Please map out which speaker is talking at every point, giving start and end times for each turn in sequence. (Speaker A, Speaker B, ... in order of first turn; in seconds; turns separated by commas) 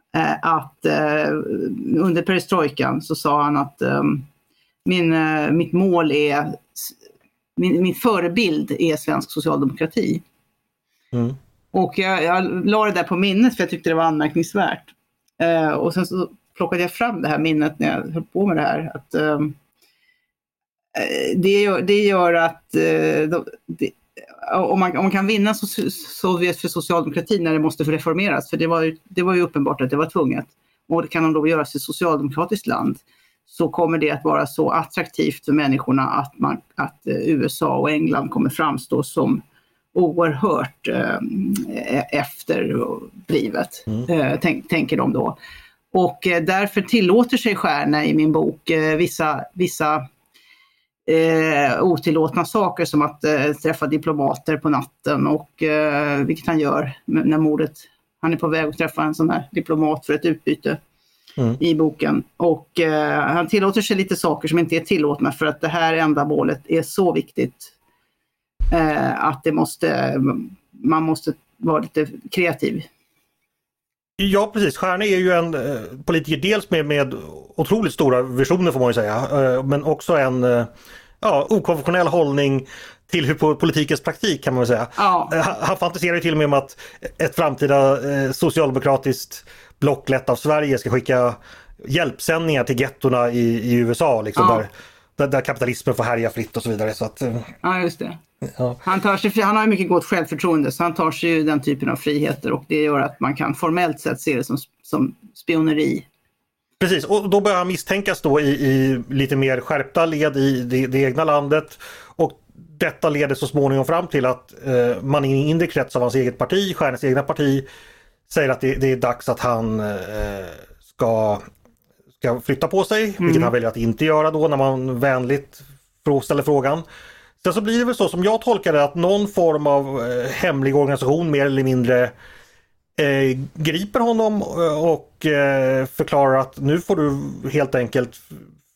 Speaker A: 0.1-4.3, Speaker A: 4.8-7.0, Speaker A: 7.6-10.2, Speaker A: 11.7-19.6, Speaker A: 20.9-39.4, Speaker A: 39.9-45.4, Speaker A: 45.9-50.0, Speaker A: 51.1-60.8, Speaker A: 61.6-67.8, Speaker A: 68.7-72.9, Speaker B: 74.2-80.7, Speaker B: 81.2-97.5, Speaker A: 85.0-85.3, Speaker A: 94.4-94.7, Speaker A: 97.6-98.2, Speaker A: 98.8-106.1, Speaker B: 106.8-117.7, Speaker B: 118.3-121.4, Speaker B: 122.2-126.8, Speaker A: 123.2-123.5, Speaker B: 127.4-132.1, Speaker B: 133.0-138.4